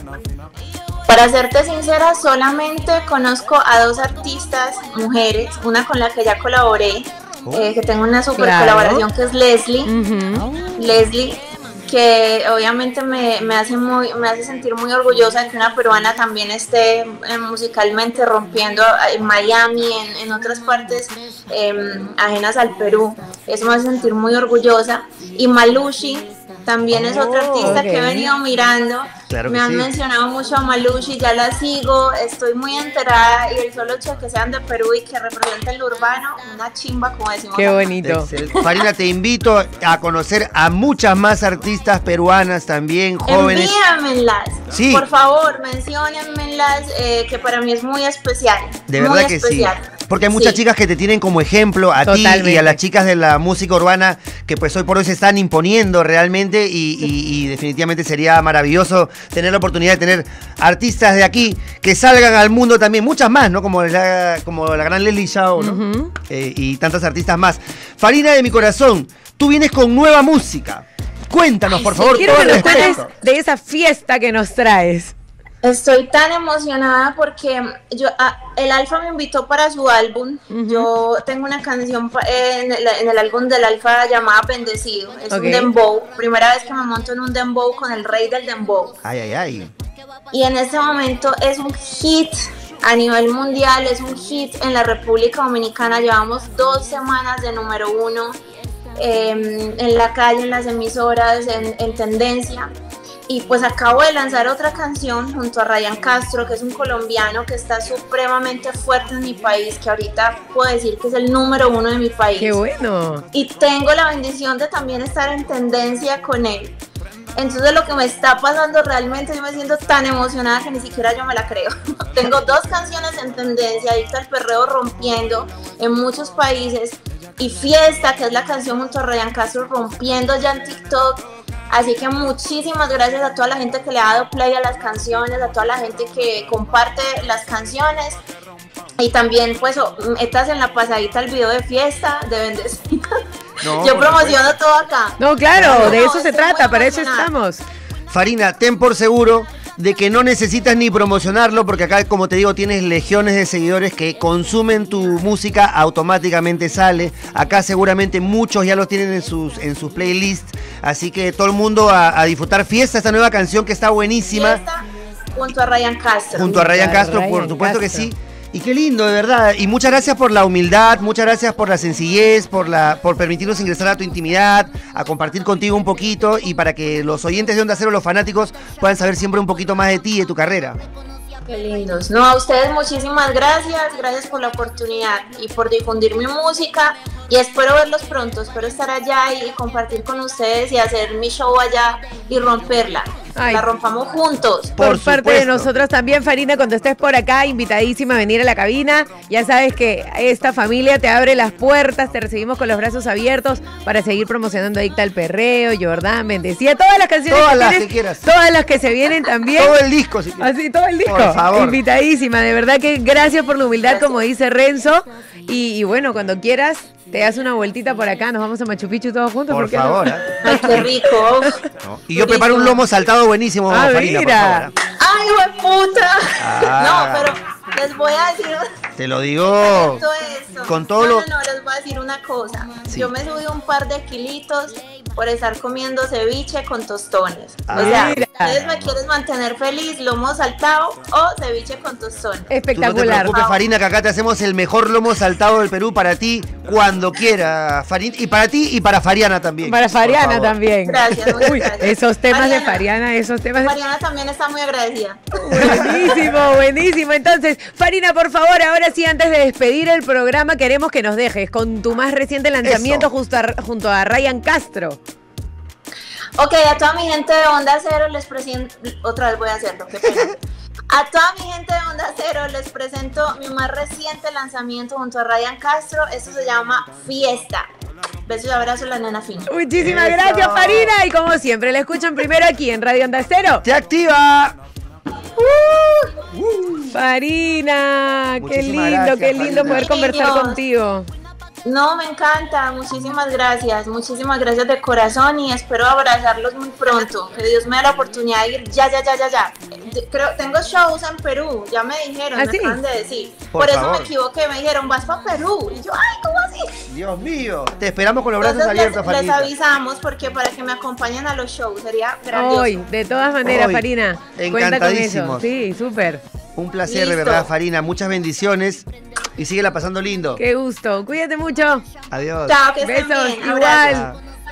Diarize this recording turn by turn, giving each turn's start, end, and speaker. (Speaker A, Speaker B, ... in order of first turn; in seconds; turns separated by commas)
Speaker A: 1.1-9.9, Speaker B: 7.5-7.7, Speaker C: 8.4-9.1, Speaker C: 9.9-10.5, Speaker A: 10.8-37.9, Speaker B: 26.9-27.8, Speaker C: 27.6-28.3, Speaker B: 29.3-29.9, Speaker C: 37.5-38.3, Speaker B: 38.0-43.8, Speaker A: 38.5-38.9, Speaker A: 43.3-50.6, Speaker B: 44.7-45.1, Speaker B: 48.9-73.1, Speaker C: 52.0-52.8, Speaker C: 65.6-66.1, Speaker A: 71.8-73.0, Speaker C: 71.8-75.1, Speaker A: 75.6-89.0, Speaker C: 80.5-80.9, Speaker C: 85.3-85.7, Speaker B: 89.0-89.7, Speaker A: 90.3-98.4, Speaker A: 99.0-102.7, Speaker A: 103.3-112.6, Speaker C: 112.4-113.2, Speaker A: 113.3-116.8, Speaker A: 117.4-138.2, Speaker A: 139.0-142.9, Speaker B: 143.6-144.5, Speaker A: 143.6-147.3, Speaker C: 145.2-147.6, Speaker B: 145.6-146.0, Speaker B: 148.1-164.6, Speaker A: 164.3-166.6, Speaker B: 166.3-180.8, Speaker C: 166.4-168.1, Speaker A: 181.5-194.8, Speaker C: 193.4-193.7, Speaker B: 194.8-195.7, Speaker C: 194.8-209.8, Speaker B: 207.3-208.2, Speaker B: 209.6-210.5, Speaker C: 210.4-221.5, Speaker B: 211.1-211.8, Speaker A: 213.8-214.2, Speaker B: 219.5-220.9, Speaker A: 220.4-221.6, Speaker B: 221.8-224.7, Speaker A: 222.2-222.8, Speaker C: 223.7-224.7, Speaker A: 225.0-228.7, Speaker B: 226.4-227.3, Speaker B: 229.0-230.0, Speaker A: 229.6-242.5, Speaker B: 230.7-231.3, Speaker B: 237.7-239.0, Speaker C: 237.7-238.6, Speaker C: 242.5-243.4, Speaker B: 242.8-250.6, Speaker A: 243.2-243.6, Speaker C: 249.6-253.7, Speaker A: 250.8-252.8, Speaker B: 251.2-251.4, Speaker A: 253.6-256.1, Speaker C: 255.4-265.0, Speaker B: 255.6-256.1, Speaker B: 262.6-263.1, Speaker A: 266.4-270.4, Speaker A: 270.9-277.7, Speaker A: 278.3-279.5, Speaker C: 279.5-283.6, Speaker B: 279.8-280.9, Speaker B: 283.6-284.6, Speaker A: 285.4-286.1, Speaker B: 286.3-286.9, Speaker C: 286.9-291.1, Speaker B: 288.4-289.9, Speaker A: 289.6-290.6, Speaker A: 291.6-306.8, Speaker C: 302.4-302.8, Speaker B: 303.5-304.1, Speaker B: 306.9-309.5, Speaker A: 308.4-312.8, Speaker C: 312.3-316.2, Speaker B: 313.4-313.8, Speaker B: 314.4-315.5, Speaker B: 316.6-320.4, Speaker A: 316.8-317.5, Speaker C: 320.4-321.9, Speaker B: 322.1-322.6, Speaker A: 322.5-324.0, Speaker C: 322.8-324.1, Speaker B: 323.8-324.2